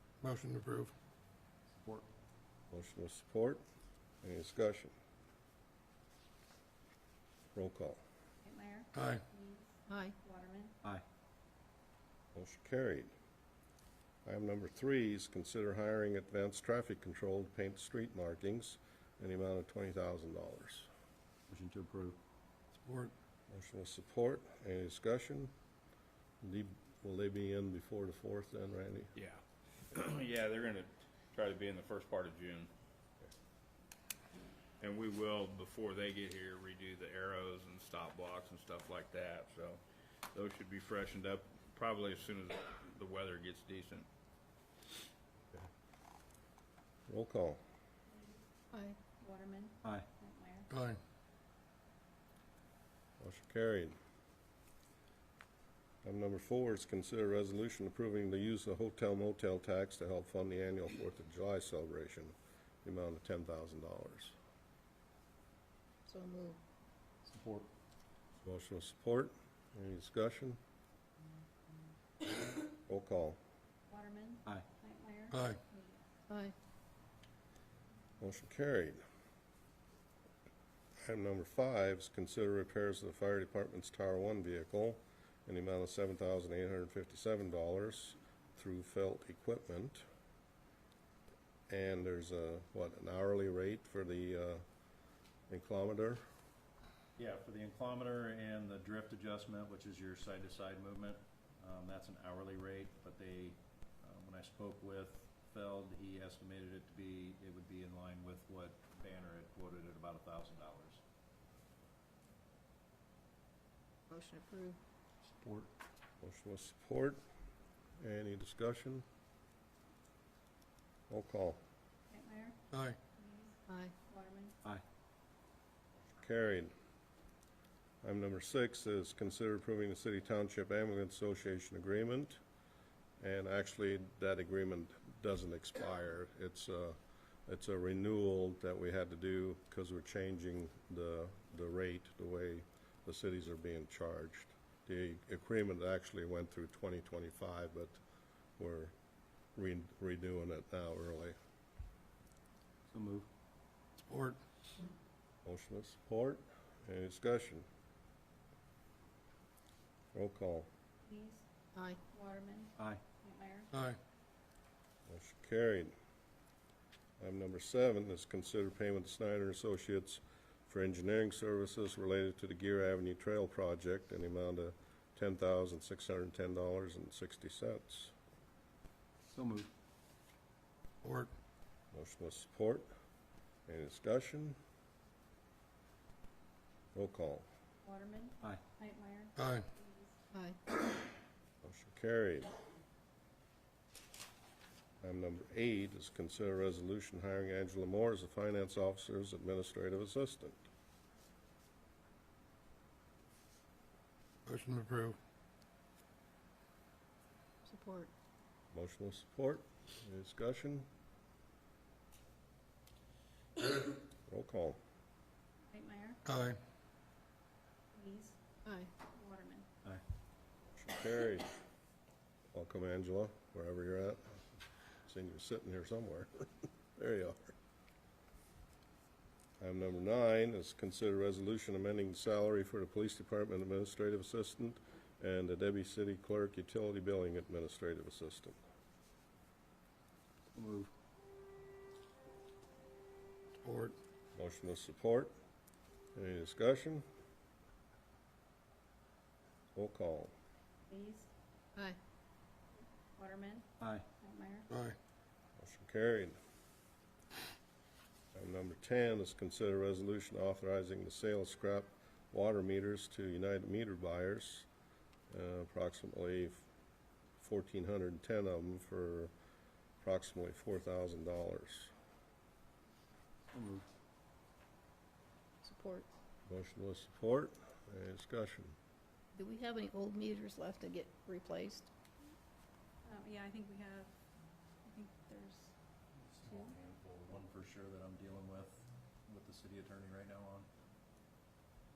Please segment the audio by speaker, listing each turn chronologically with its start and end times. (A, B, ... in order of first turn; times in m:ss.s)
0:00.2-0:00.9 A
0:01.7-0:02.1 B
0:02.7-0:03.6 C
0:04.2-0:04.9 C
0:07.5-0:08.0 C
0:08.4-0:10.8 D
0:09.0-0:09.2 A
0:09.9-0:10.2 E
0:12.3-0:13.1 C
0:14.2-0:20.9 C
0:21.5-0:22.2 B
0:22.8-0:23.1 A
0:23.5-0:25.5 C
0:26.4-0:29.1 C
0:29.2-0:29.4 F
0:29.9-0:32.7 F
0:34.8-0:39.8 F
0:40.3-0:44.1 F
0:47.1-0:47.6 C
0:48.1-0:48.4 D
0:48.7-0:49.0 E
0:49.2-0:50.7 D
0:50.7-0:51.0 A
0:53.2-0:54.0 C
0:56.0-1:04.3 C
1:06.1-1:06.6 E
1:07.3-1:07.7 B
1:08.4-1:10.6 C
1:12.9-1:13.4 C
1:13.9-1:16.0 D
1:16.3-1:16.6 E
1:18.2-1:19.0 C
1:21.0-1:30.0 C
1:31.7-1:34.6 C
1:35.5-1:36.2 C
1:37.2-1:51.0 B
1:54.1-1:54.8 E
1:55.3-1:55.7 B
1:56.2-1:57.2 C
1:58.0-1:59.0 C
2:01.1-2:01.6 C
2:02.1-2:04.6 D
2:03.7-2:03.9 E
2:06.1-2:06.7 C
2:08.0-2:12.4 C
2:13.2-2:28.0 C
2:28.6-2:28.9 C
2:29.6-2:31.4 C
2:32.9-2:33.3 B
2:34.0-2:34.4 A
2:35.4-2:37.7 C
2:40.1-2:40.7 C
2:41.0-2:41.4 D
2:41.8-2:42.0 E
2:42.1-2:43.7 D
2:42.8-2:43.0 B
2:43.7-2:44.0 A
2:45.1-2:45.9 C
2:47.2-2:58.1 C
2:59.3-2:59.7 B
3:01.0-3:01.3 A
3:01.9-3:02.9 C
3:03.7-3:04.6 C
3:06.9-3:07.5 C
3:07.8-3:10.2 D
3:09.4-3:09.6 A
3:11.6-3:12.5 C
3:15.0-3:20.6 C
3:24.5-3:25.2 A
3:27.6-3:28.1 E
3:28.7-3:30.9 C
3:34.3-3:34.8 C
3:35.7-3:36.2 D
3:36.3-3:36.6 A
3:37.9-3:38.4 D
3:38.7-3:38.9 E
3:39.1-3:39.7 D
3:40.8-3:41.5 C
3:42.5-3:44.4 C
3:45.0-3:47.5 C
3:49.6-3:58.6 C
4:00.5-4:00.9 B
4:03.6-4:04.0 A
4:04.4-4:05.3 C
4:06.2-4:07.0 C
4:09.8-4:10.3 C
4:10.9-4:11.3 D
4:13.2-4:13.7 D
4:13.8-4:14.0 B
4:14.2-4:14.7 D
4:14.7-4:15.0 A
4:15.6-4:16.4 C
4:18.3-4:24.7 C
4:25.3-4:26.6 C
4:27.4-4:29.3 C
4:30.0-4:31.9 C
4:33.5-4:33.9 B
4:35.6-4:36.1 E
4:36.5-4:38.8 C
4:39.3-4:41.9 E
4:43.0-4:44.1 D
4:44.8-4:45.7 D
4:46.3-4:50.7 B
4:46.5-4:46.7 D